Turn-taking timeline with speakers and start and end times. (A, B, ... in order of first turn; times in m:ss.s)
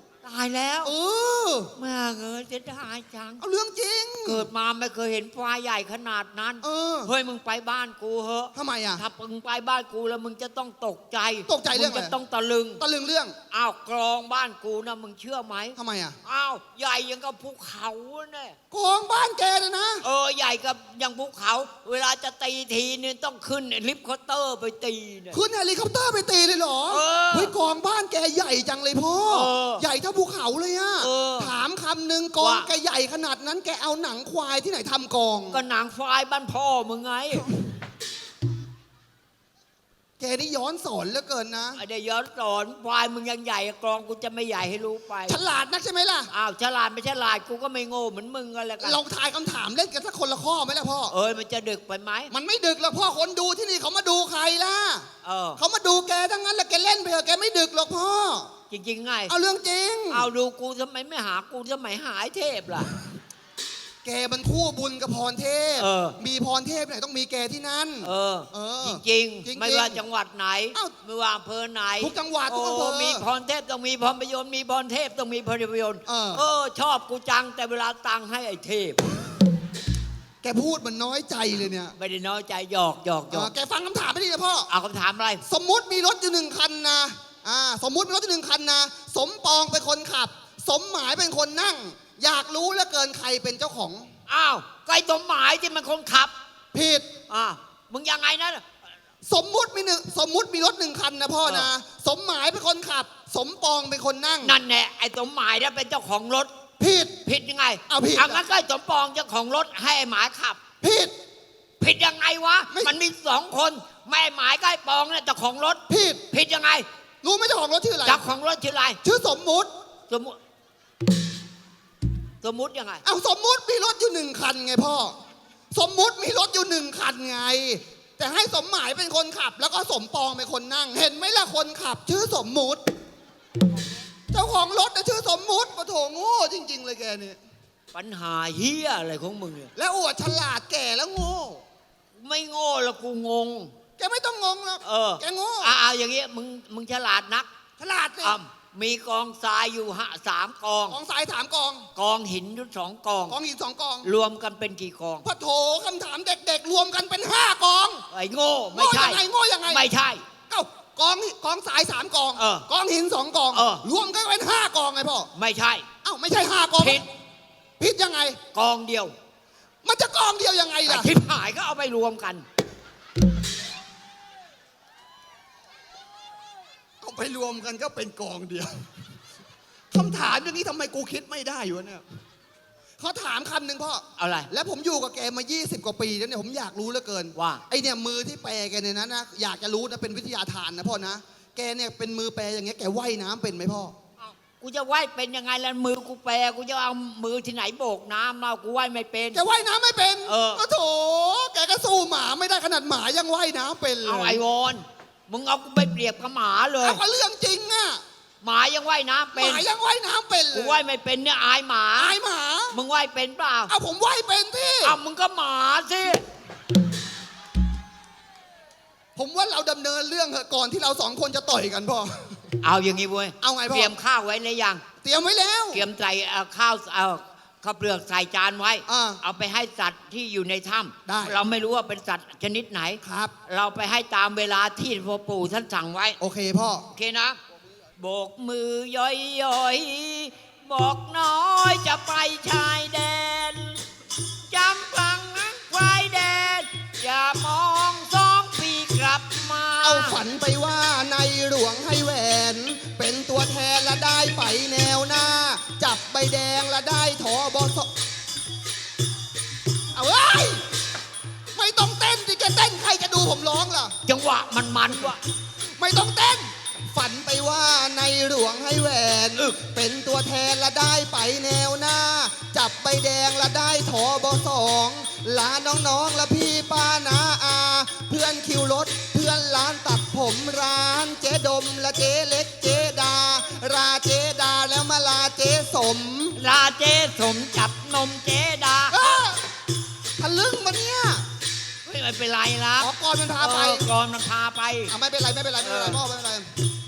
0:00.2-0:00.9 A
0:00.8-0:01.7 B
0:01.8-0:03.4 A
0:03.4-0:04.5 B
0:04.2-0:12.8 A
0:06.6-0:07.1 B
0:08.6-0:09.0 B
0:11.5-0:12.2 B
0:12.8-0:13.4 B
0:13.5-0:18.6 A
0:15.8-0:16.2 B
0:18.7-0:20.0 B
0:20.0-0:25.4 A
0:25.3-0:35.6 B
0:26.9-0:27.6 A
0:29.3-0:29.8 A
0:31.0-0:31.5 A
0:32.4-0:32.7 A
0:35.5-0:37.5 A
0:40.2-0:41.8 B
0:41.8-0:45.4 A
0:45.3-0:46.3 B
0:46.3-0:49.0 A
0:48.8-0:51.1 B
0:51.1-0:52.3 A
0:52.3-0:55.1 B
0:55.2-0:55.6 A
0:55.6-0:58.5 B
0:58.7-0:59.4 A
0:59.3-1:00.3 B
1:00.1-1:02.9 A
1:04.0-1:10.0 B
1:05.8-1:06.2 A
1:08.0-1:19.0 A
1:12.0-1:13.3 B
1:16.1-1:16.4 B
1:20.4-1:22.0 B
1:21.9-1:23.5 A
1:23.3-1:24.7 B
1:24.7-1:25.4 A
1:25.4-1:34.1 B
1:34.3-1:36.3 A
1:36.7-1:37.1 B
1:37.3-1:38.6 A
1:39.2-1:44.6 B
1:41.4-1:41.7 A
1:44.4-1:46.5 A
1:46.8-1:47.1 B
1:47.2-1:50.6 A
1:47.9-1:48.4 B
1:50.8-1:51.1 B
1:51.8-1:56.9 A
1:52.7-1:53.0 B
1:55.9-1:56.2 B
1:57.2-1:58.2 B
1:58.0-1:59.0 A
1:59.0-1:59.7 B
2:00.1-2:00.4 A
2:02.4-2:03.0 A
2:03.0-2:05.2 B
2:05.7-2:12.8 B
2:14.3-2:17.4 B
2:17.9-2:19.7 A
2:19.8-2:21.6 B
2:22.2-2:23.7 A
2:24.0-2:25.8 B
2:24.8-2:27.5 A
2:27.8-2:28.4 B
2:28.2-2:31.0 A
2:30.9-2:31.9 B
2:32.0-2:33.4 A
2:33.3-2:34.1 B
2:34.0-2:35.3 A
2:35.2-2:38.0 B
2:38.1-2:40.2 A
2:38.7-2:39.9 B
2:40.5-2:45.3 B
2:42.4-2:42.7 A
2:43.5-2:43.9 A
2:45.4-2:45.9 A
2:46.0-2:47.0 B
2:46.8-2:47.0 A
2:47.8-2:48.4 B
2:48.5-2:49.1 A
2:49.8-2:51.1 B
2:50.8-2:52.4 A
2:57.0-2:58.9 B
2:59.9-3:02.0 B
3:03.0-3:13.9 B
3:04.2-3:04.5 A
3:07.4-3:07.6 A
3:14.2-3:19.4 A
3:19.3-3:24.4 B
3:20.3-3:20.6 A
3:24.0-3:27.0 A
3:26.8-3:28.0 B
3:28.4-3:29.7 A
3:29.3-3:30.8 B
3:30.5-3:32.2 A
3:32.0-3:32.8 B
3:32.7-3:33.7 A
3:33.7-3:35.0 B
3:34.8-3:36.2 A
3:39.2-3:42.4 B
3:42.6-3:44.8 A
3:43.4-3:43.9 B
3:45.0-3:45.9 B
3:45.7-3:56.2 A
3:48.9-3:49.2 B
3:51.1-3:51.4 B
3:53.0-3:53.3 B
3:56.2-3:56.9 B
3:56.9-3:57.4 A
3:58.0-4:03.8 A
4:04.5-4:10.2 A
4:09.8-4:17.9 B
4:20.0-4:20.6 B
4:21.5-4:23.9 B
4:24.0-4:25.2 A
4:25.8-4:46.4 B
4:46.4-4:49.2 A
4:48.9-4:49.5 B
4:50.2-4:51.2 B
4:51.8-4:55.0 A
4:52.8-4:53.9 B
4:54.9-4:56.5 B
4:55.6-4:56.0 A